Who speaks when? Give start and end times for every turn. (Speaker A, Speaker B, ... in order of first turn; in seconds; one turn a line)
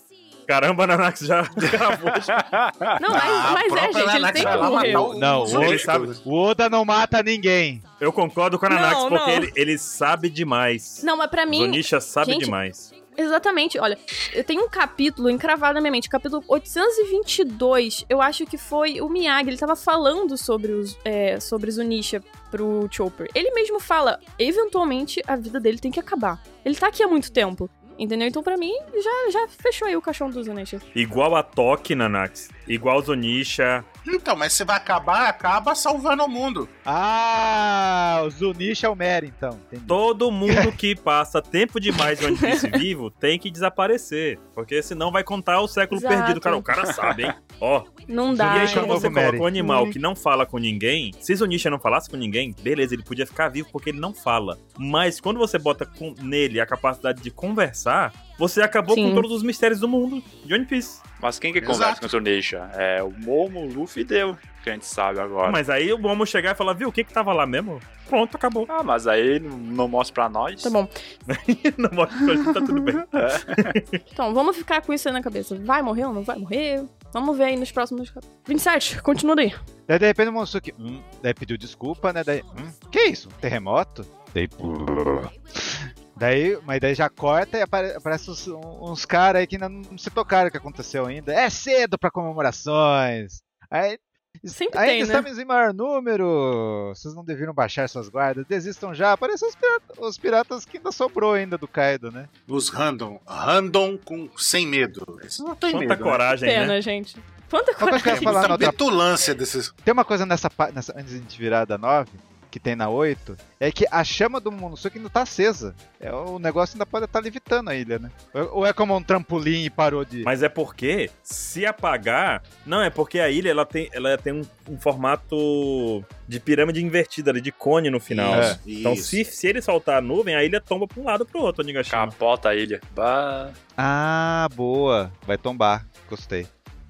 Speaker A: 0.5-2.5
Speaker B: 2.1-3.0
Speaker C: 3.0-5.6
Speaker D: 3.1-6.2
Speaker A: 4.4-4.9
Speaker E: 4.9-7.8
Speaker A: 5.4-6.0
Speaker A: 8.0-12.9
Speaker C: 8.7-9.5
Speaker C: 11.0-12.6
Speaker C: 13.1-30.8
Speaker A: 30.9-33.9
Speaker D: 34.0-36.7
Speaker E: 36.8-40.7
Speaker A: 39.9-61.0
Speaker C: 42.2-42.8
Speaker C: 45.9-46.6
Speaker C: 48.1-49.9
Speaker E: 48.3-49.5
Speaker C: 58.9-59.2
Speaker B: 61.2-65.6
Speaker D: 61.6-62.1
Speaker A: 65.4-68.7
Speaker B: 68.7-70.7
Speaker C: 70.6-70.9
Speaker A: 71.3-74.0
Speaker B: 73.2-73.7
Speaker C: 74.1-79.6
Speaker E: 79.9-102.3
Speaker C: 94.5-95.3
Speaker D: 102.5-106.2
Speaker A: 105.7-106.7
Speaker C: 106.4-108.6
Speaker E: 107.8-108.8
Speaker D: 108.0-109.7
Speaker E: 109.8-120.3
Speaker A: 120.2-132.1
Speaker D: 128.1-129.2
Speaker E: 128.3-128.6
Speaker B: 131.9-133.6
Speaker E: 133.8-136.5